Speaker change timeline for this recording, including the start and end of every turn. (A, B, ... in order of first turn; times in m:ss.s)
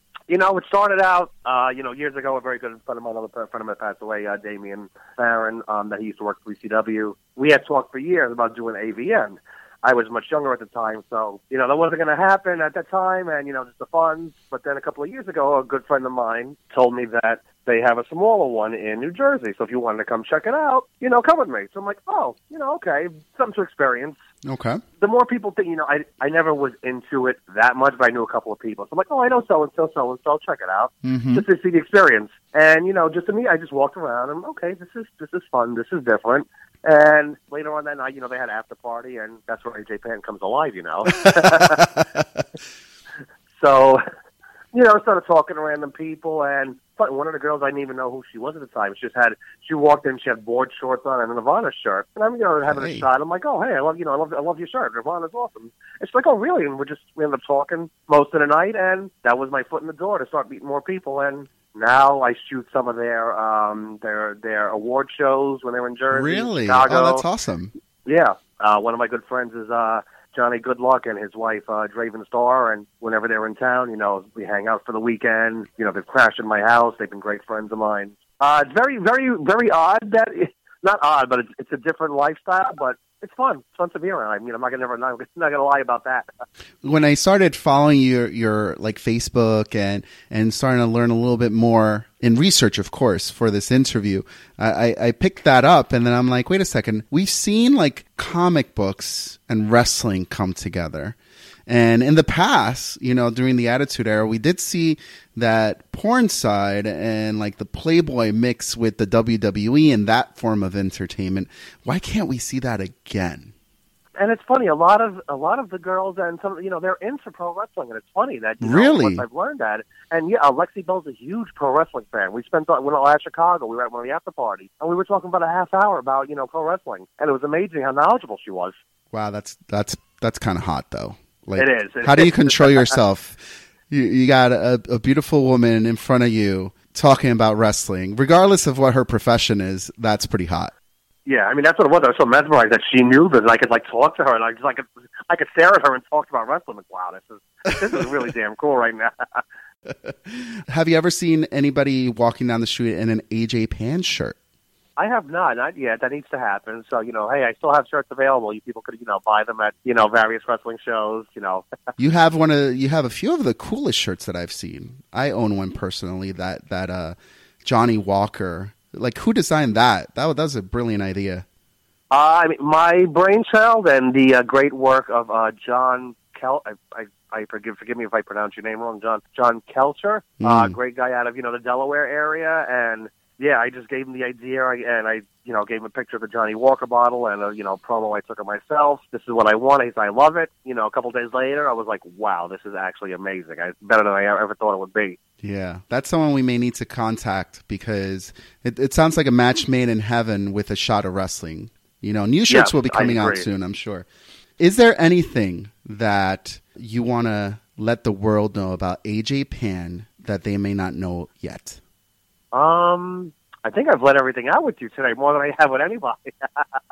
0:00.3-0:24.2 A
0:24.4-0:24.8 B
0:25.0-0:41.9 A
0:31.0-0:31.4 B
0:41.2-0:42.2 B
0:43.6-0:44.0 A
0:44.7-1:07.2 A
0:52.7-0:53.1 B
1:06.1-1:07.7 B
1:08.0-1:26.3 A
1:26.8-1:41.2 B
1:41.7-1:53.5 B
1:54.2-2:08.7 A
1:58.6-1:59.2 B
2:09.1-2:20.7 B
2:11.6-2:12.9 A
2:21.2-2:29.4 A
2:29.9-2:34.4 B
2:35.0-2:41.6 A
2:42.0-2:51.4 B
2:52.1-3:15.2 A
3:00.4-3:00.7 B
3:15.4-3:24.1 B
3:22.5-3:23.4 A
3:24.6-3:31.8 B
3:32.5-3:36.6 A